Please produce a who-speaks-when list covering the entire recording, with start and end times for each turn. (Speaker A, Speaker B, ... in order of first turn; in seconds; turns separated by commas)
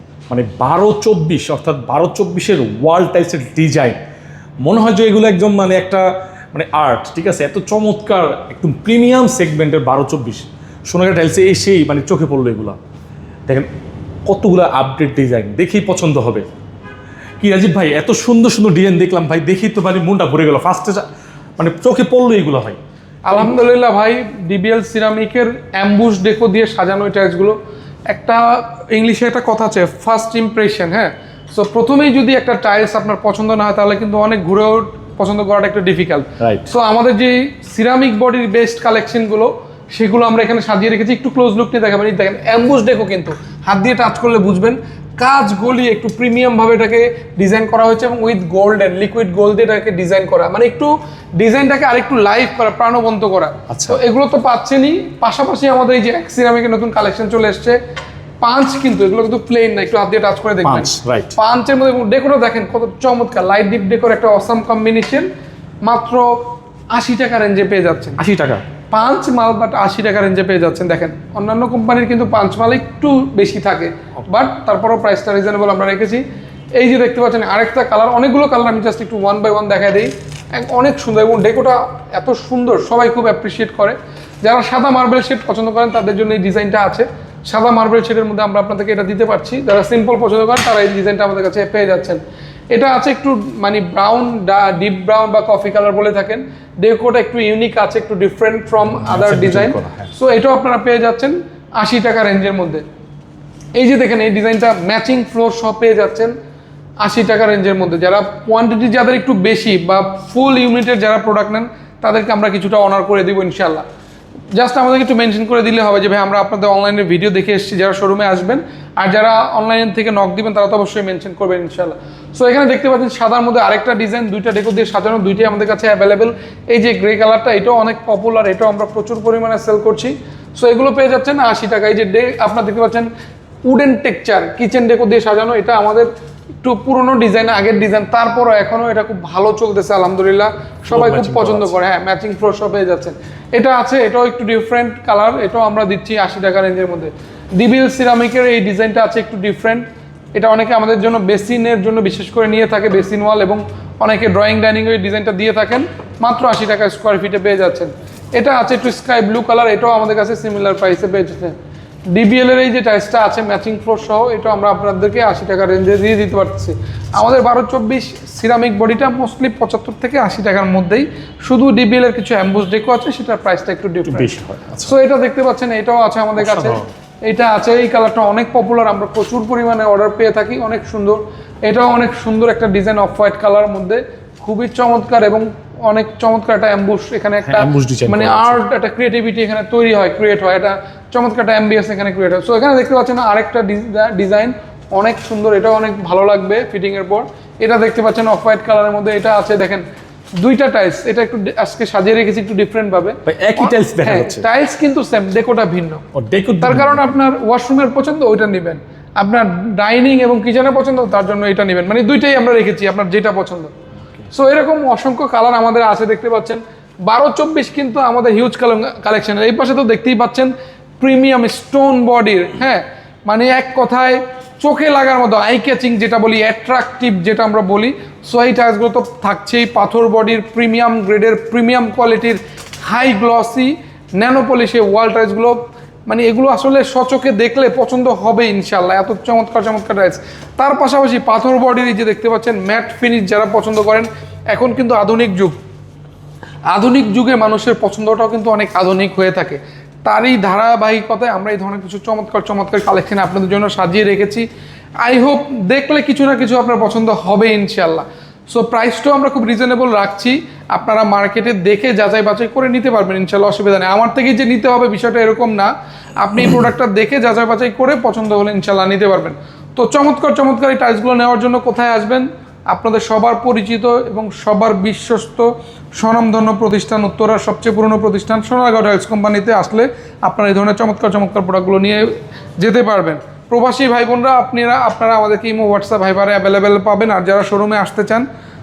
Speaker A: 0.3-4.0, Speaker A: 4.6-12.8, Speaker A: 14.3-16.4, Speaker A: 17.4-21.1, Speaker A: 21.6-22.8, Speaker B: 23.3-57.8, Speaker A: 36.4-36.7, Speaker A: 53.7-54.0, Speaker B: 58.4-65.3, Speaker A: 60.6-61.3, Speaker B: 65.8-66.3, Speaker B: 66.9-68.2, Speaker A: 68.2-68.6, Speaker B: 68.9-76.2, Speaker B: 76.8-92.2, Speaker B: 92.7-102.8, Speaker A: 99.0-100.1, Speaker B: 103.8-106.3, Speaker B: 107.0-113.8, Speaker B: 114.5-133.1, Speaker B: 133.7-136.1, Speaker B: 136.6-149.8, Speaker A: 140.9-141.7, Speaker B: 150.3-161.6, Speaker B: 162.1-174.3, Speaker A: 174.1-174.9, Speaker B: 174.8-199.8, Speaker A: 176.4-176.9, Speaker A: 187.4-188.6, Speaker B: 200.4-206.0, Speaker A: 203.2-204.5, Speaker A: 206.1-207.1, Speaker B: 206.6-213.7, Speaker B: 214.3-245.6, Speaker B: 246.7-254.5, Speaker B: 255.0-288.2